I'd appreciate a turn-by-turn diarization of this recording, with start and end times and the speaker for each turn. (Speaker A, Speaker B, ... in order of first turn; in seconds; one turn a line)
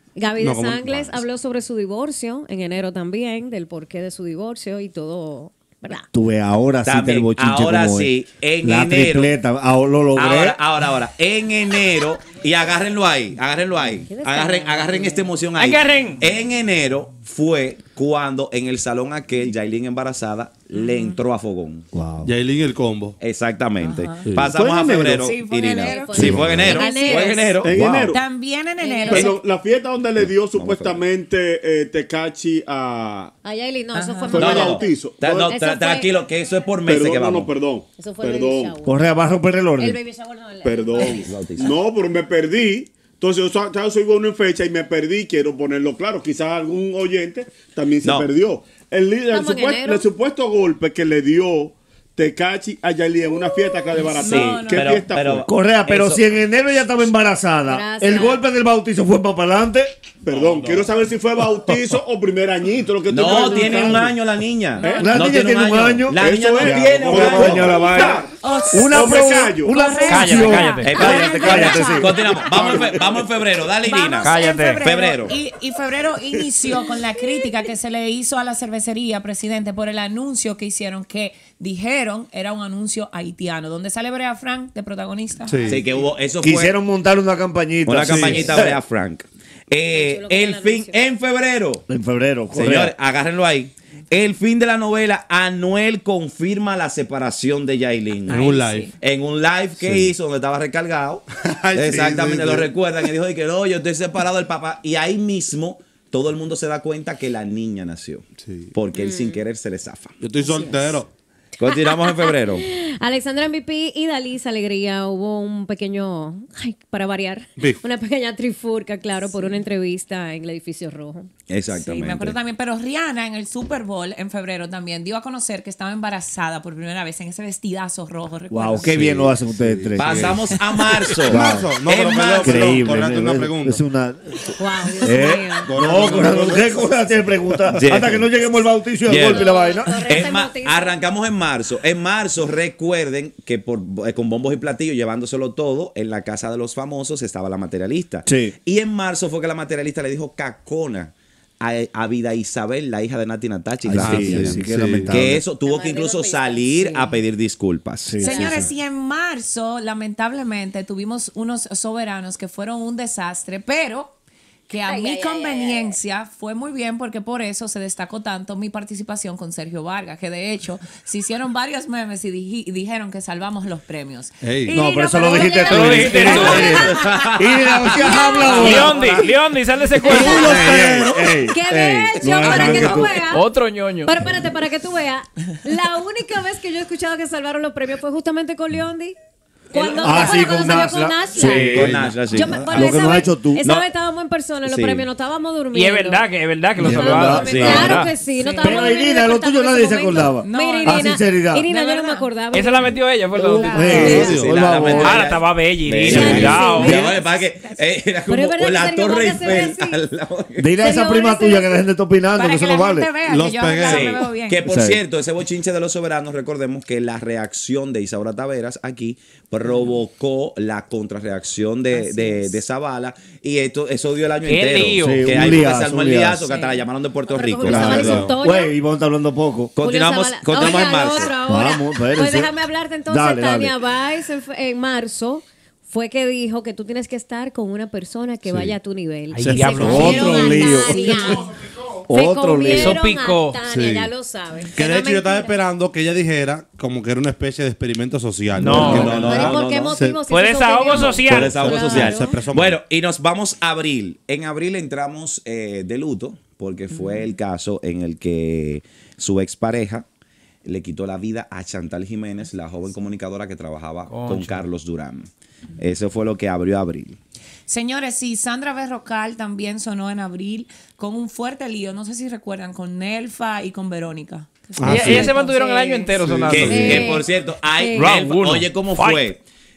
Speaker A: 0.1-6.1
Speaker B: 0.4-1.2
Speaker C: 6.1-10.6
Speaker D: 6.8-9.3
Speaker D: 10.2-21.9
Speaker A: 14.1-15.3
Speaker E: 15.6-16.2
Speaker F: 20.7-21.1
Speaker C: 21.9-22.3
Speaker B: 22.2-23.2
Speaker D: 23.2-28.2
Speaker F: 23.8-24.3
Speaker B: 24.2-24.6
Speaker G: 24.5-25.3
Speaker F: 25.1-29.4
Speaker A: 25.7-27.5
Speaker B: 26.1-26.7
Speaker G: 27.6-28.2
Speaker A: 28.8-29.4
Speaker G: 29.1-33.3
Speaker D: 30.2-31.0
Speaker A: 33.4-36.2
Speaker F: 33.9-34.5
Speaker G: 34.3-35.5
Speaker D: 34.3-37.5
Speaker G: 36.8-38.8
Speaker A: 38.0-39.0
Speaker C: 38.8-40.0
Speaker A: 39.8-41.3
Speaker G: 40.6-55.5
Speaker D: 41.0-41.8
Speaker D: 48.0-48.3
Speaker A: 49.3-50.1
Speaker F: 53.9-55.0
Speaker D: 54.2-56.2
Speaker C: 55.5-59.9
Speaker A: 57.7-58.4
Speaker G: 60.2-64.2
Speaker D: 63.1-68.2
Speaker G: 64.8-65.1
Speaker F: 64.8-65.1
Speaker C: 65.0-72.8
Speaker G: 66.1-70.1
Speaker F: 68.4-72.4
Speaker E: 70.1-70.9
Speaker D: 70.8-75.4
Speaker G: 72.4-73.3
Speaker F: 73.8-85.7
Speaker E: 74.2-74.8
Speaker B: 85.5-85.8
Speaker D: 85.7-86.7
Speaker C: 86.4-88.8
Speaker D: 87.8-91.8
Speaker B: 88.0-88.6
Speaker A: 89.9-91.0
Speaker C: 91.9-92.9
Speaker D: 92.5-110.2
Speaker B: 98.3-98.9
Speaker F: 98.3-98.9
Speaker B: 99.8-100.1
Speaker B: 101.4-102.7
Speaker B: 108.4-108.7
Speaker A: 108.9-109.4
Speaker B: 110.2-111.1
Speaker A: 110.4-110.9
Speaker D: 111.6-112.7
Speaker A: 111.6-121.3
Speaker D: 121.5-122.4
Speaker F: 121.7-128.9
Speaker C: 128.5-130.4
Speaker B: 128.9-130.4
Speaker D: 128.9-129.3
Speaker D: 130.0-132.9
Speaker B: 131.2-133.8
Speaker C: 131.3-131.7
Speaker C: 132.4-134.2
Speaker A: 134.6-135.7
Speaker C: 135.0-140.0
Speaker B: 135.7-136.7
Speaker B: 137.7-138.0
Speaker D: 137.8-138.2
Speaker D: 139.1-139.5
Speaker A: 139.2-141.0
Speaker D: 140.0-158.7
Speaker C: 148.2-148.5
Speaker C: 153.8-155.4
Speaker B: 153.9-155.2
Speaker A: 155.6-157.2
Speaker C: 158.1-158.7
Speaker F: 158.2-164.2
Speaker A: 158.2-158.5
Speaker F: 164.7-177.1
Speaker A: 164.8-166.0
Speaker B: 174.4-174.8
Speaker C: 174.7-179.3
Speaker A: 174.8-177.2
Speaker E: 175.7-176.8
Speaker D: 176.4-178.9
Speaker A: 177.8-178.9
Speaker E: 178.4-180.6
Speaker A: 180.0-180.5
Speaker C: 180.0-183.2
Speaker B: 180.1-181.3
Speaker D: 180.4-180.7
Speaker A: 181.5-183.5
Speaker E: 182.4-184.1
Speaker A: 184.0-189.1
Speaker A: 189.7-191.7
Speaker D: 189.7-190.7
Speaker C: 190.0-191.9
Speaker B: 191.4-192.6
Speaker D: 191.4-193.9
Speaker A: 192.3-196.3
Speaker C: 192.7-193.6
Speaker D: 194.6-195.1
Speaker E: 195.7-198.1
Speaker B: 196.8-197.8
Speaker C: 196.8-198.0
Speaker A: 196.8-203.0
Speaker D: 197.4-198.0
Speaker F: 198.3-199.0
Speaker C: 198.6-201.6
Speaker F: 200.4-202.3
Speaker E: 202.5-204.0
Speaker F: 203.3-204.4
Speaker C: 203.7-205.4
Speaker A: 203.8-204.3
Speaker B: 203.9-204.7
Speaker D: 204.0-210.7
Speaker E: 205.0-207.0
Speaker B: 206.1-206.6
Speaker C: 206.1-207.2
Speaker A: 206.1-207.0
Speaker A: 208.3-210.0
Speaker C: 210.6-213.1
Speaker A: 210.8-211.8
Speaker F: 212.3-214.6
Speaker B: 213.2-214.2
Speaker D: 213.8-228.3
Speaker C: 214.6-215.0
Speaker F: 219.6-219.9
Speaker F: 221.9-222.6
Speaker E: 224.4-225.3
Speaker C: 225.0-226.4
Speaker F: 226.4-226.8
Speaker A: 227.3-228.7
Speaker C: 227.6-229.7
Speaker B: 227.7-228.3
Speaker D: 229.7-231.3
Speaker A: 229.8-241.4
Speaker C: 231.4-232.5
Speaker C: 233.1-233.8
Speaker B: 238.5-238.7
Speaker E: 239.3-240.3
Speaker B: 239.4-241.4
Speaker C: 239.8-241.4
Speaker C: 242.1-243.0
Speaker A: 242.1-245.5
Speaker E: 242.7-243.6
Speaker B: 243.7-244.1
Speaker B: 244.7-250.2
Speaker E: 248.6-249.3
Speaker D: 248.7-249.9
Speaker A: 248.8-252.4
Speaker E: 250.3-251.6
Speaker B: 251.0-252.8
Speaker D: 251.2-260.1
Speaker F: 256.9-257.3
Speaker D: 260.6-267.2
Speaker E: 264.1-264.6
Speaker F: 267.7-276.2
Speaker B: 274.8-275.3
Speaker E: 274.8-277.1
Speaker A: 275.3-276.0
Speaker B: 276.2-277.1
Speaker D: 276.5-279.4
Speaker A: 276.7-278.1
Speaker E: 277.9-279.3